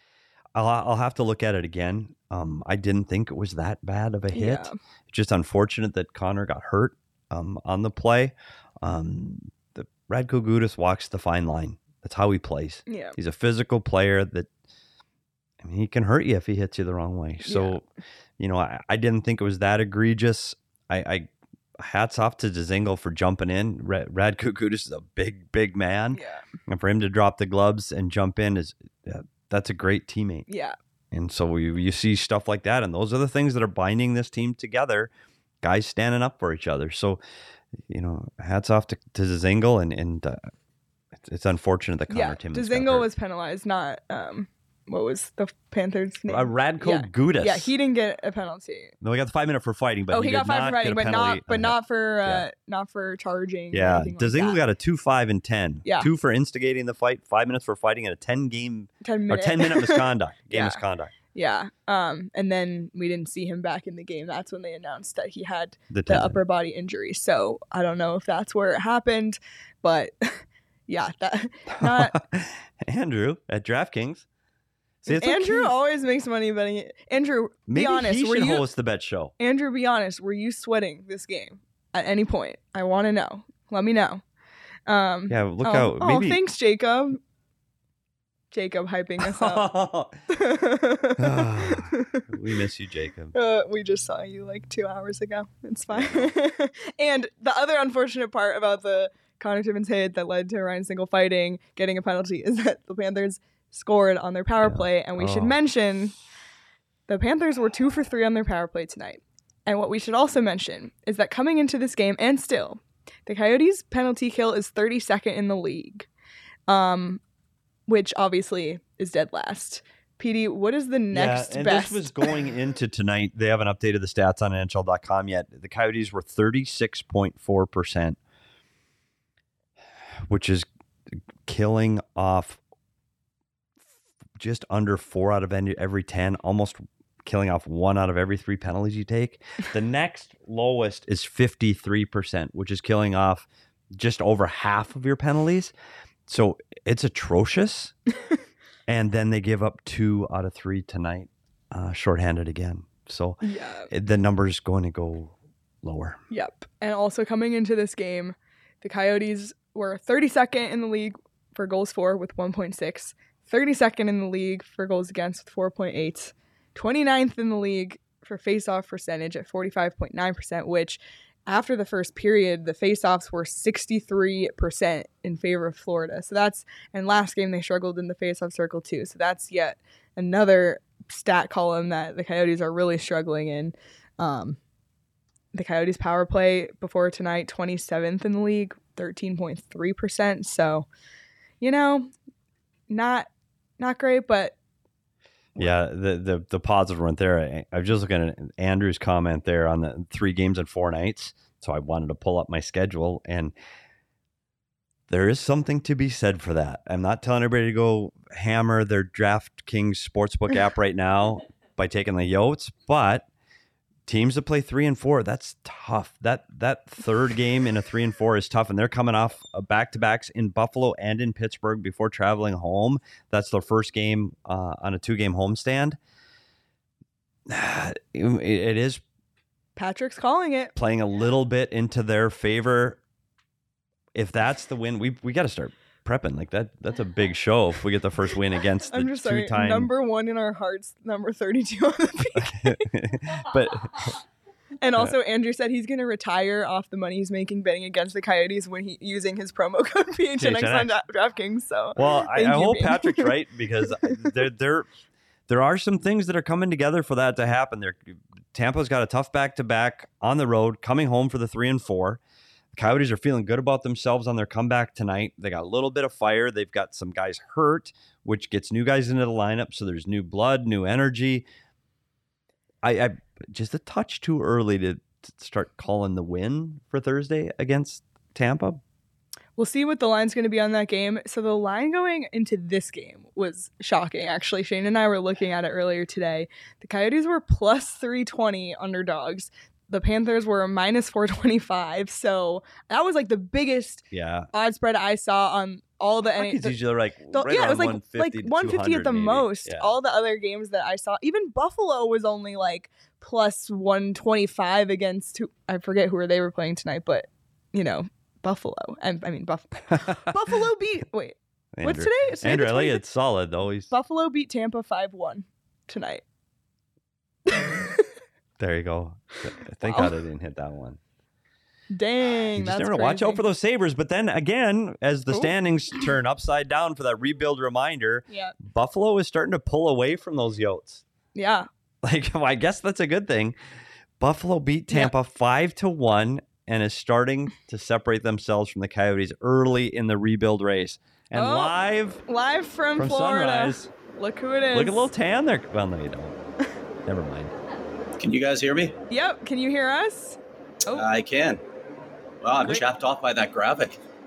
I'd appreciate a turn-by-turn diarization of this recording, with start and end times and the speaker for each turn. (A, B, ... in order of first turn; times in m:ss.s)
0:00.6-0:14.5 A
0:04.3-0:04.8 B
0:12.9-0:13.2 B
0:15.6-0:17.9 A
0:17.4-0:17.8 B
0:18.4-0:30.5 A
0:26.2-0:26.4 B
0:30.5-0:30.8 B
0:31.1-0:35.1 A
0:35.6-0:37.2 A
0:37.9-0:40.5 A
0:41.2-0:43.1 A
0:42.1-0:48.9 B
0:46.3-0:47.7 A
0:49.0-0:52.4 A
0:50.1-0:54.6 B
0:53.7-1:01.1 A
0:55.8-0:56.1 B
0:59.0-1:00.8 B
1:01.3-1:12.2 B
1:05.9-1:06.4 A
1:11.8-1:14.2 A
1:15.0-1:15.7 A
1:15.1-1:18.6 B
1:17.7-1:19.3 A
1:19.4-1:24.2 B
1:24.9-1:27.2 B
1:25.3-1:26.4 A
1:28.5-1:29.7 B
1:29.2-1:30.2 A
1:30.3-1:32.2 B
1:31.2-1:33.3 A
1:33.3-1:46.1 B
1:35.9-1:36.3 A
1:44.6-1:45.6 A
1:47.1-1:56.1 B
1:56.7-1:57.2 B
1:57.9-2:02.2 B
2:01.1-2:08.2 A
2:10.3-2:10.7 A
2:11.4-2:12.6 A
2:14.4-2:25.7 A
2:26.3-2:28.0 A
2:28.9-2:36.2 A
2:33.4-2:33.9 B
2:36.3-3:04.6 B
3:05.5-3:10.9 B
3:11.6-3:12.1 B
3:12.9-3:14.6 B
3:15.6-3:23.5 A
3:25.1-3:33.3 A
3:34.1-3:46.0 A
3:47.5-3:49.0 A
3:49.8-3:50.7 B
3:50.8-3:53.0 A
3:54.2-3:59.9 A
3:58.9-4:02.9 B
4:02.4-4:04.1 A
4:04.8-4:13.4 B
4:10.4-4:10.9 A
4:12.0-4:14.9 A
4:14.0-4:14.3 B
4:15.5-4:22.2 A
4:22.7-4:31.4 A
4:32.8-4:38.8 A
4:39.6-4:56.8 B
4:54.1-4:54.5 A
4:56.4-4:59.9 A
4:57.3-5:13.0 B
5:11.8-5:13.9 A
5:13.9-5:16.2 B
5:17.5-5:18.1 B
5:18.6-5:21.0 A
5:19.8-5:20.2 B
5:21.9-5:23.4 B
5:22.6-5:31.0 A
5:28.3-5:28.6 B
5:31.4-5:31.7 B
5:32.0-5:33.6 A
5:34.2-5:42.2 A
5:41.3-5:41.7 B
5:42.3-5:45.1 B
5:43.0-5:43.9 A
5:44.7-5:46.4 A
5:47.1-5:47.5 A
5:48.2-5:49.0 C
5:49.1-5:51.1 B
5:50.9-5:51.6 C
5:52.4-5:54.0 C